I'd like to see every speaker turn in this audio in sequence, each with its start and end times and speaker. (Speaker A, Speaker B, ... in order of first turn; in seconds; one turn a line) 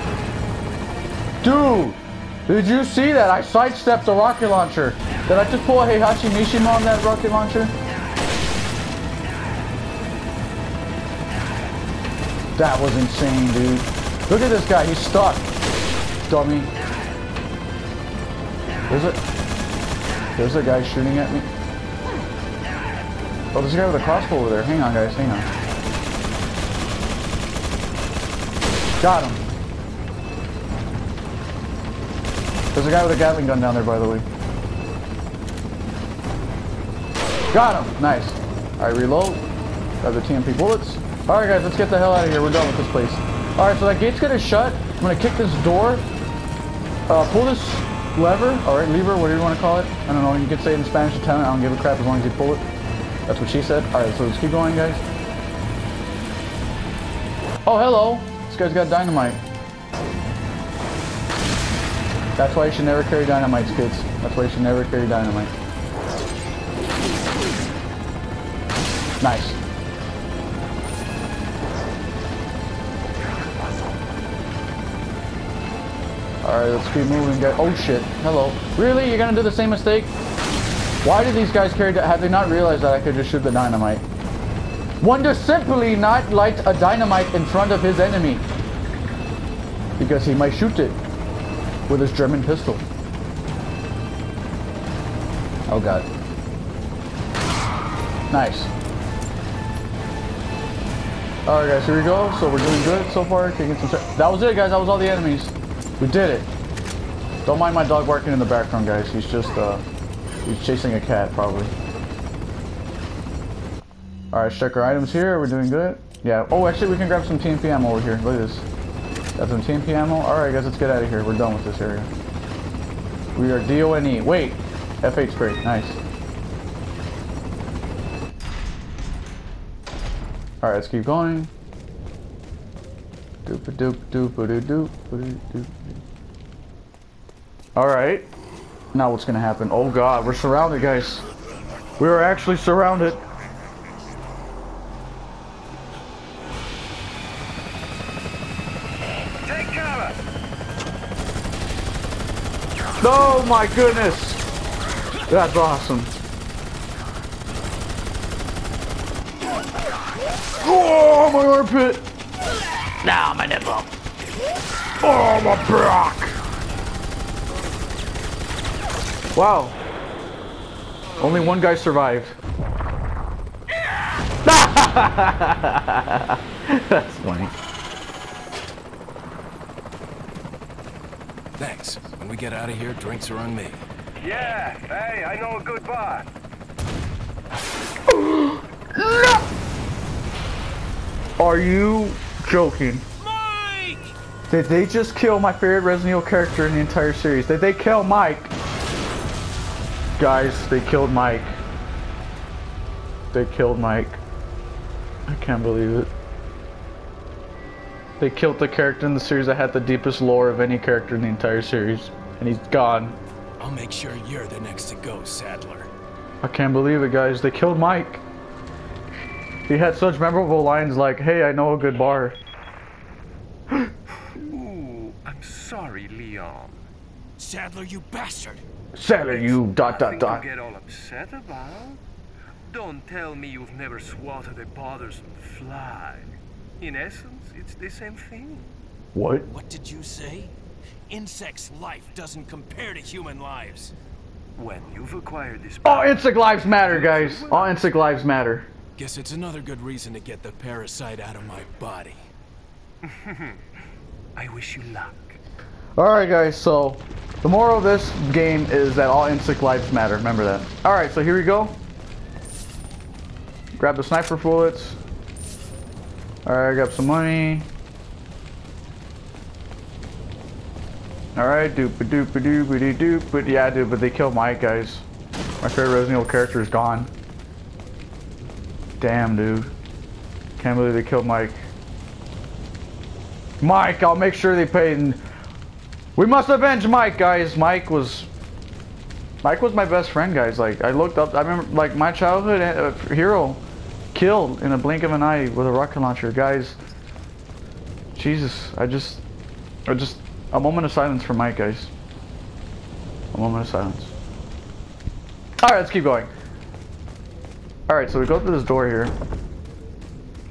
Speaker A: 1.4-7.7
Speaker A: 12.6-15.5
Speaker A: 16.3-16.7
Speaker A: 18.9-19.2
Speaker A: 20.4-21.5
Speaker A: 23.5-25.5
Speaker A: 29.0-29.4
Speaker A: 32.7-34.2
Speaker A: 37.5-39.4
Speaker A: 40.0-46.0
Speaker A: 47.1-52.6
Speaker A: 53.3-55.0
Speaker A: 57.6-59.4
Speaker A: 62.4-65.5
Speaker A: 69.2-69.6
Speaker A: 76.4-80.1
Speaker A: 81.0-84.0
Speaker A: 85.0-88.5
Speaker A: 90.0-91.0
Speaker A: 91.9-92.8
Speaker A: 95.7-96.0
Speaker A: 98.3-98.7
Speaker A: 101.5-106.5
Speaker A: 107.4-109.8
Speaker A: 110.4-111.7
Speaker A: 114.3-118.6
Speaker A: 119.4-122.1
Speaker A: 123.3-126.0
Speaker A: 130.6-131.5
Speaker A: 133.4-136.0
Speaker A: 137.8-138.3
Speaker A: 138.9-141.2
Speaker A: 142.0-143.2
Speaker B: 149.4-150.2
Speaker A: 153.0-154.4
Speaker A: 155.3-156.1
Speaker A: 160.6-162.1
Speaker A: 163.0-163.9
Speaker A: 165.0-166.3
Speaker A: 169.3-169.8
Speaker A: 171.2-172.4
Speaker A: 174.4-177.5
Speaker C: 181.6-183.8
Speaker B: 184.2-186.3
Speaker A: 188.1-189.5
Speaker A: 191.4-193.1
Speaker C: 193.2-194.1
Speaker A: 194.5-198.5
Speaker A: 200.2-201.6
Speaker A: 203.3-204.2
Speaker A: 205.3-206.1
Speaker A: 208.2-213.2
Speaker C: 213.6-215.9
Speaker A: 216.4-218.2
Speaker A: 219.7-222.4
Speaker B: 224.3-226.8
Speaker C: 227.4-228.6
Speaker A: 228.9-230.4
Speaker B: 229.3-232.0
Speaker B: 232.7-238.7
Speaker A: 239.1-239.5
Speaker C: 239.5-240.5
Speaker C: 241.1-243.9
Speaker B: 244.6-247.8
Speaker A: 245.8-248.7
Speaker C: 249.0-252.3
Speaker B: 253.0-253.6
Speaker B: 254.3-255.4
Speaker A: 256.0-261.8
Speaker A: 263.8-265.0
Speaker A: 266.4-267.7
Speaker A: 271.3-275.0
Speaker A: 275.6-277.1
Speaker A: 279.0-279.7
Speaker A: 280.6-281.6
Speaker A: 283.6-285.2
Speaker A: 286.1-288.3
Speaker A: 289.4-296.8
Speaker A: 298.1-299.2
Speaker A: 299.9-301.9
Speaker A: 303.3-304.1
Speaker A: 305.6-306.3
Speaker A: 307.9-309.1